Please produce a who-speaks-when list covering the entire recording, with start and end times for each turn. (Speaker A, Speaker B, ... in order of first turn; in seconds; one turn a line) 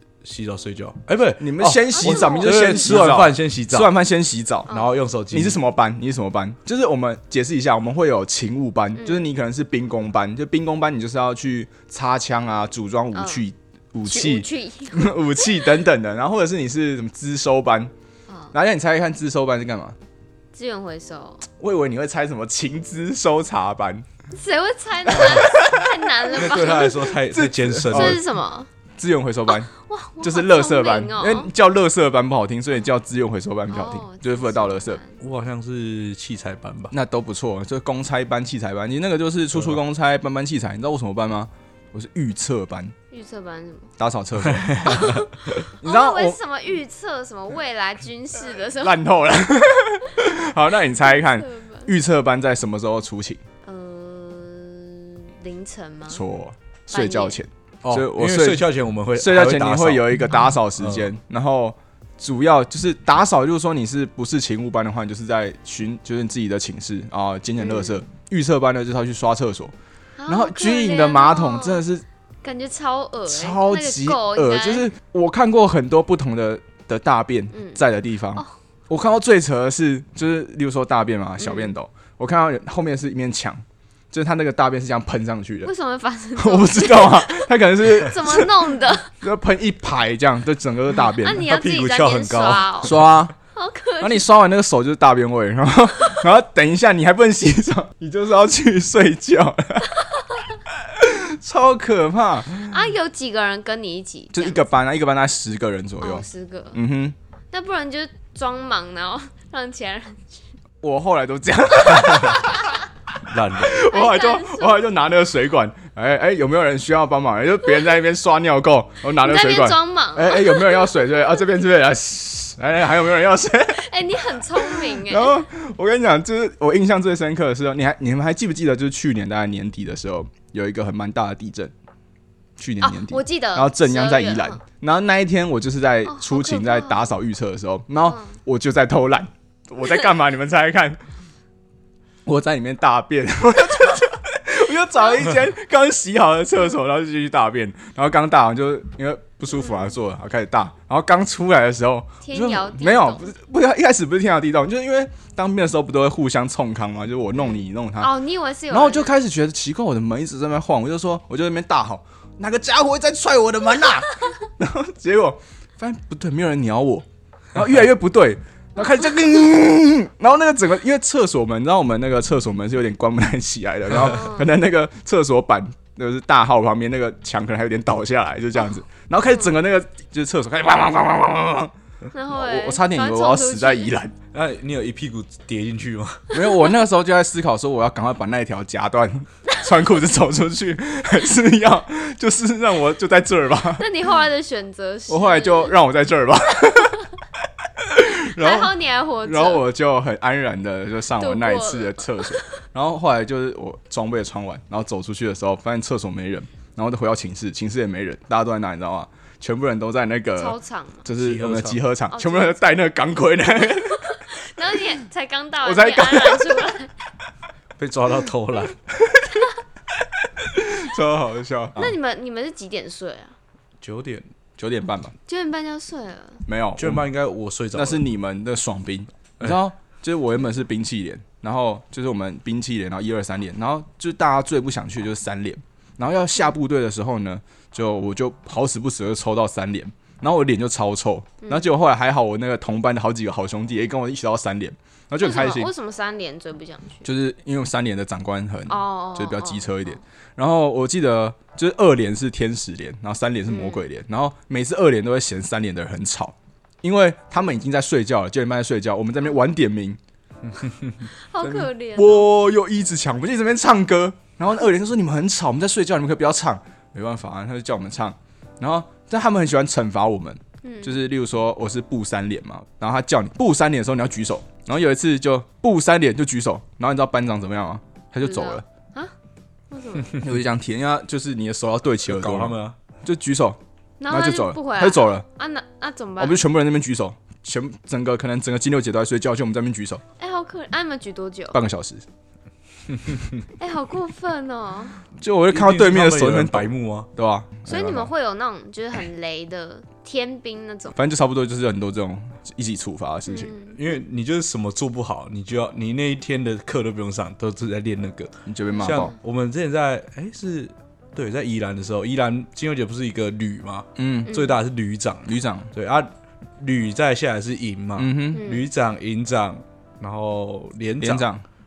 Speaker A: 0.2-4.0
Speaker B: 1.4-4.7
Speaker C: 1.9-2.6
Speaker A: 4.7-5.6
Speaker B: 5.3-17.9
Speaker C: 9.0-9.3
Speaker C: 13.1-13.4
Speaker C: 14.1-15.7
Speaker C: 18.3-18.5
Speaker B: 18.5-20.0
Speaker C: 20.5-21.5
Speaker B: 21.6-24.1
Speaker C: 24.3-27.1
Speaker B: 25.1-25.9
Speaker A: 26.3-28.2
Speaker B: 27.2-28.2
Speaker C: 27.9-28.7
Speaker B: 29.0-29.7
Speaker C: 29.5-31.5
Speaker B: 30.2-35.0
Speaker C: 33.7-35.2
Speaker A: 35.2-36.9
Speaker B: 36.9-42.9
Speaker C: 43.1-43.9
Speaker B: 44.0-45.2
Speaker A: 44.4-45.6
Speaker C: 44.9-49.0
Speaker B: 45.8-46.4
Speaker B: 48.5-53.4
Speaker C: 51.0-51.9
Speaker C: 53.6-56.2
Speaker B: 56.1-69.7
Speaker C: 56.9-57.4
Speaker A: 57.8-61.1
Speaker C: 67.6-68.0
Speaker C: 70.2-71.8
Speaker B: 70.3-72.0
Speaker C: 72.4-74.9
Speaker B: 73.3-85.7
Speaker C: 77.5-77.8
Speaker C: 81.4-81.7
Speaker C: 85.6-89.1
Speaker B: 86.4-91.5
Speaker C: 91.2-93.0
Speaker A: 91.3-93.2
Speaker B: 92.8-93.3
Speaker C: 93.5-94.3
Speaker B: 94.0-99.9
Speaker C: 100.0-100.5
Speaker B: 100.7-102.8
Speaker C: 102.7-104.7
Speaker B: 104.3-107.2
Speaker C: 106.0-106.8
Speaker C: 107.5-110.4
Speaker B: 110.8-112.8
Speaker C: 111.9-112.8
Speaker A: 113.2-113.8
Speaker B: 113.5-123.9
Speaker C: 113.8-114.9
Speaker C: 119.2-120.9
Speaker C: 123.7-125.4
Speaker B: 124.4-131.7
Speaker B: 132.6-141.0
Speaker C: 132.8-134.6
Speaker C: 136.1-137.1
Speaker C: 138.1-138.4
Speaker B: 142.3-158.1
Speaker C: 152.2-153.3
Speaker C: 157.4-159.2
Speaker B: 158.7-181.7
Speaker C: 174.0-174.5
Speaker C: 182.1-183.9
Speaker B: 182.3-184.2
Speaker A: 184.3-186.3
Speaker B: 186.3-193.9
Speaker C: 193.8-195.8
Speaker B: 195.1-197.1
Speaker B: 197.8-214.2
Speaker C: 198.3-199.7
Speaker C: 201.2-202.6
Speaker C: 210.4-211.1
Speaker A: 211.2-211.8
Speaker C: 212.1-212.7
Speaker C: 213.8-216.9
Speaker B: 215.6-216.7
Speaker A: 217.8-218.8
Speaker B: 219.0-219.4
Speaker C: 219.3-219.6
Speaker B: 220.2-221.9
Speaker C: 221.8-223.4
Speaker A: 223.8-224.3
Speaker B: 224.6-225.2
Speaker C: 225.3-226.4
Speaker B: 226.5-227.1
Speaker A: 226.8-228.0
Speaker B: 227.7-245.7
Speaker C: 245.2-247.1
Speaker B: 247.0-260.0
Speaker C: 248.7-249.7
Speaker C: 253.5-253.8
Speaker C: 261.1-262.3
Speaker B: 261.4-278.6
Speaker C: 270.6-271.0
Speaker C: 278.2-279.1
Speaker C: 279.7-280.2
Speaker B: 280.2-285.3
Speaker A: 282.1-282.8
Speaker C: 284.0-286.4
Speaker B: 286.2-290.0
Speaker C: 290.2-291.6
Speaker B: 291.5-292.1
Speaker C: 293.6-295.0
Speaker B: 295.2-298.1
Speaker A: 295.5-297.1
Speaker C: 297.7-301.0
Speaker B: 300.9-303.5
Speaker C: 303.3-303.8
Speaker A: 303.7-321.3
Speaker B: 308.5-309.1
Speaker C: 308.8-309.1
Speaker B: 314.0-314.4
Speaker B: 315.3-315.7
Speaker B: 318.0-318.4
Speaker C: 318.3-318.6
Speaker B: 321.0-321.4